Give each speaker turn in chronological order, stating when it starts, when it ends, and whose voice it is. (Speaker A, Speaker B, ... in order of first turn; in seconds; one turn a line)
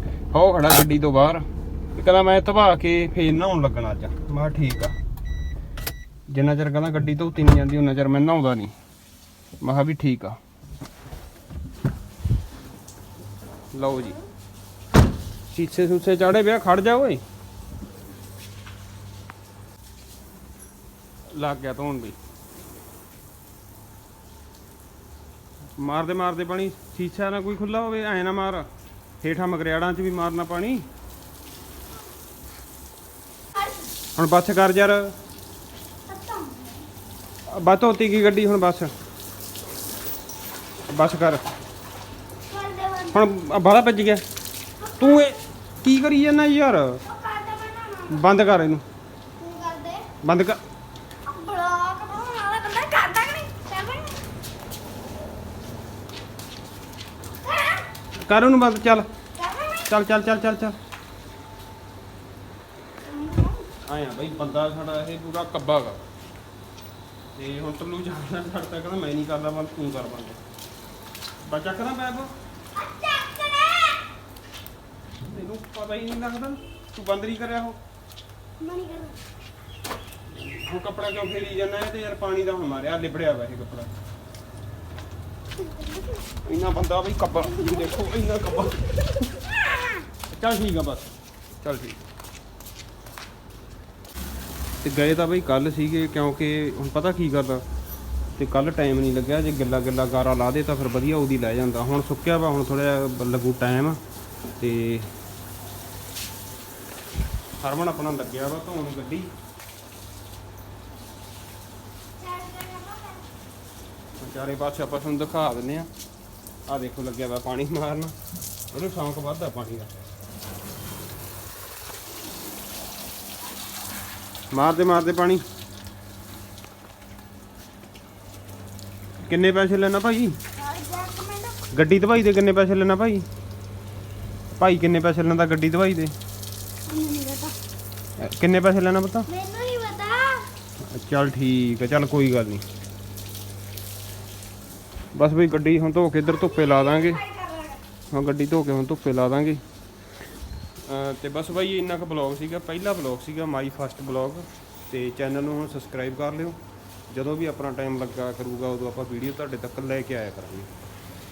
Speaker A: 0.3-5.0
Speaker A: 6.3-8.7
Speaker A: 9.6-10.4
Speaker A: 13.7-14.2
Speaker A: 15.5-17.2
Speaker A: 21.3-22.2
Speaker A: 25.8-28.7
Speaker A: 29.2-30.8
Speaker B: 33.5-33.9
Speaker A: 34.2-35.1
Speaker B: 36.1-36.9
Speaker A: 37.5-38.9
Speaker A: 40.9-41.4
Speaker B: 42.5-43.3
Speaker A: 43.1-44.2
Speaker B: 44.8-45.3
Speaker A: 45.0-47.0
Speaker B: 47.1-48.2
Speaker A: 48.1-48.8
Speaker B: 49.4-50.1
Speaker A: 50.2-50.6
Speaker B: 51.3-54.2
Speaker B: 57.4-57.9
Speaker A: 58.2-59.1
Speaker B: 59.4-59.9
Speaker A: 59.8-60.8
Speaker B: 63.0-63.7
Speaker A: 63.8-66.0
Speaker A: 67.4-70.4
Speaker A: 71.4-72.3
Speaker B: 72.8-74.0
Speaker A: 75.2-77.8
Speaker B: 78.6-79.2
Speaker A: 80.3-83.9
Speaker B: 85.6-86.2
Speaker A: 86.5-88.9
Speaker A: 90.3-92.0
Speaker A: 94.8-97.7
Speaker A: 98.4-104.0
Speaker A: 104.6-105.1
Speaker A: 107.6-109.3
Speaker B: 112.2-113.2
Speaker A: 114.2-115.9
Speaker A: 116.7-118.2
Speaker A: 118.7-120.0
Speaker A: 124.5-125.4
Speaker A: 129.2-130.4
Speaker B: 130.6-131.6
Speaker A: 131.7-133.3
Speaker A: 134.6-136.1
Speaker B: 136.9-137.6
Speaker A: 138.2-139.3
Speaker B: 139.3-140.5
Speaker A: 140.8-142.7
Speaker A: 145.2-147.2
Speaker B: 146.5-147.8
Speaker A: 148.1-149.6
Speaker A: 150.9-156.6
Speaker A: 157.1-160.7